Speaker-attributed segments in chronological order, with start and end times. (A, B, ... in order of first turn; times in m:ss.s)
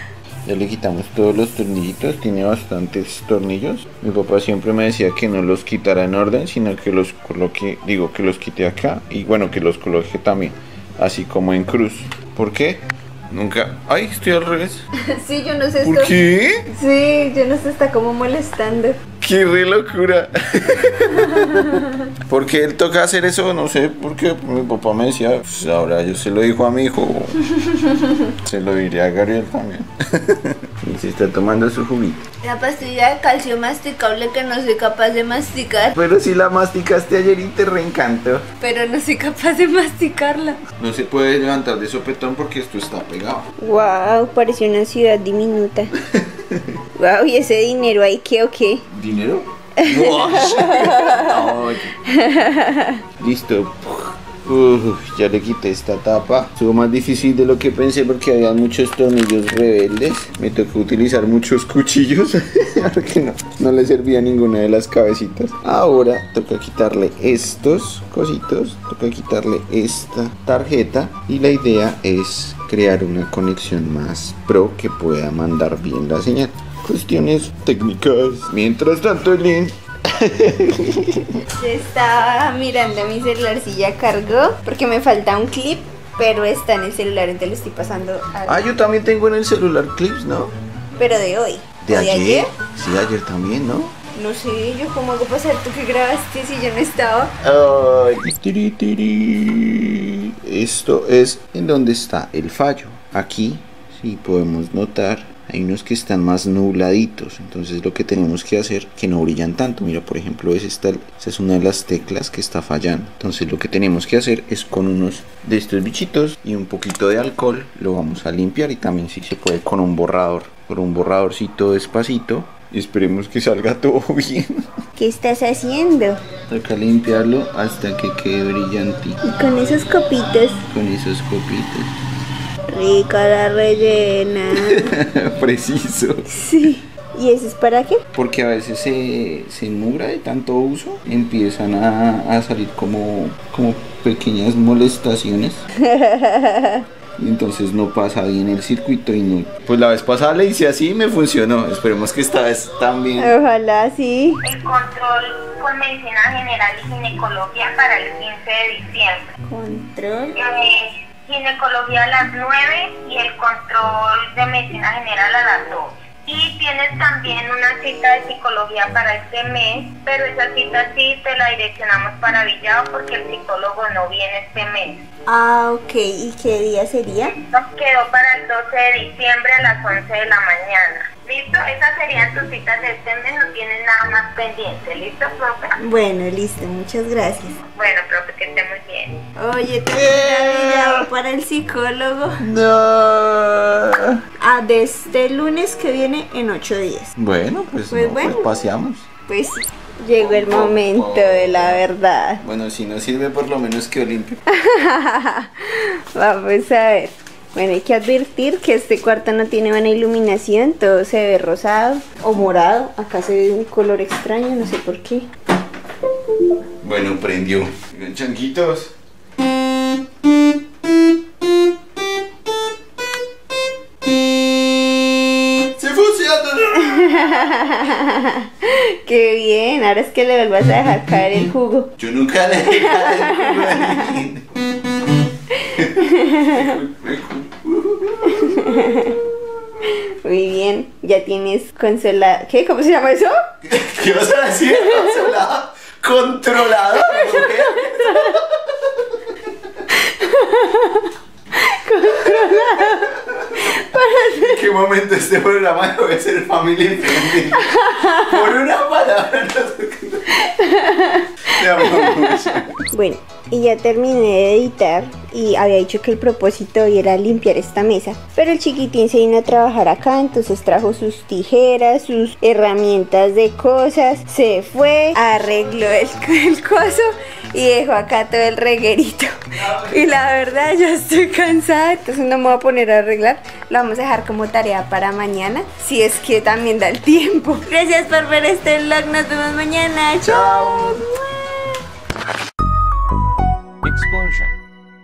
0:00.5-0:14.8 A
0:15.1-0:16.1 B
0:15.8-0:16.6 A
0:16.7-0:19.0 B
0:19.2-0:27.4 A
0:21.2-0:22.0 B
0:27.6-0:28.2 B
0:28.4-0:32.2 A
0:32.4-0:36.0 B
0:35.9-0:38.5 A
0:38.6-0:40.6 B
0:40.8-0:43.5 A
0:43.6-0:45.9 B
0:46.1-0:46.6 A
0:47.0-0:48.9 B
0:48.9-0:52.0 A
0:49.8-0:51.5 B
0:52.1-0:53.0 B
0:53.2-1:21.4 A
1:21.6-1:28.8 B
1:28.5-1:30.5 A
1:31.0-1:32.5 B
1:31.8-1:33.9 A
1:34.1-1:37.3 B
1:37.4-2:04.6 A
2:05.0-2:06.2 B
2:06.5-2:09.2 A
2:09.2-2:10.6 B
2:10.7-2:11.9 A
2:12.7-2:15.0 B
2:14.6-2:16.2 A
2:16.3-2:18.0 B
2:18.1-2:25.6 A
2:25.8-2:26.9 B
2:27.2-2:33.3 A
2:33.2-2:34.4 B
2:34.4-2:39.3 C
2:39.5-2:40.4 B
2:40.4-2:55.0 C
2:55.3-2:57.3 B
2:57.3-3:05.8 C
3:05.8-3:07.6 B
3:07.7-3:09.2 C
3:09.4-3:12.4 B
3:09.9-3:11.1 A
3:12.4-3:14.2 A
3:14.4-3:17.1 B
3:17.2-3:19.1 A
3:17.8-3:18.5 B
3:19.3-3:22.4 B
3:20.2-3:21.8 A
3:22.4-3:24.4 A
3:24.5-3:35.3 B
3:36.8-3:38.9 A
3:45.7-3:47.4 A
3:46.7-3:51.9 B
3:52.0-3:54.4 A
3:52.6-3:54.2 B
3:55.8-3:56.8 B
3:55.8-3:58.4 A
3:58.3-3:59.2 B
3:59.9-4:03.4 B
4:03.6-4:08.4 A
4:04.7-4:05.3 B
4:06.8-4:08.4 B
4:09.9-4:14.6 B
4:13.2-4:13.6 A
4:14.3-4:20.5 A
4:17.2-4:18.5 B
4:20.5-4:50.9 B
4:21.5-4:22.8 A
4:39.7-4:40.2 A
4:50.2-4:51.0 A
4:53.8-4:54.6 A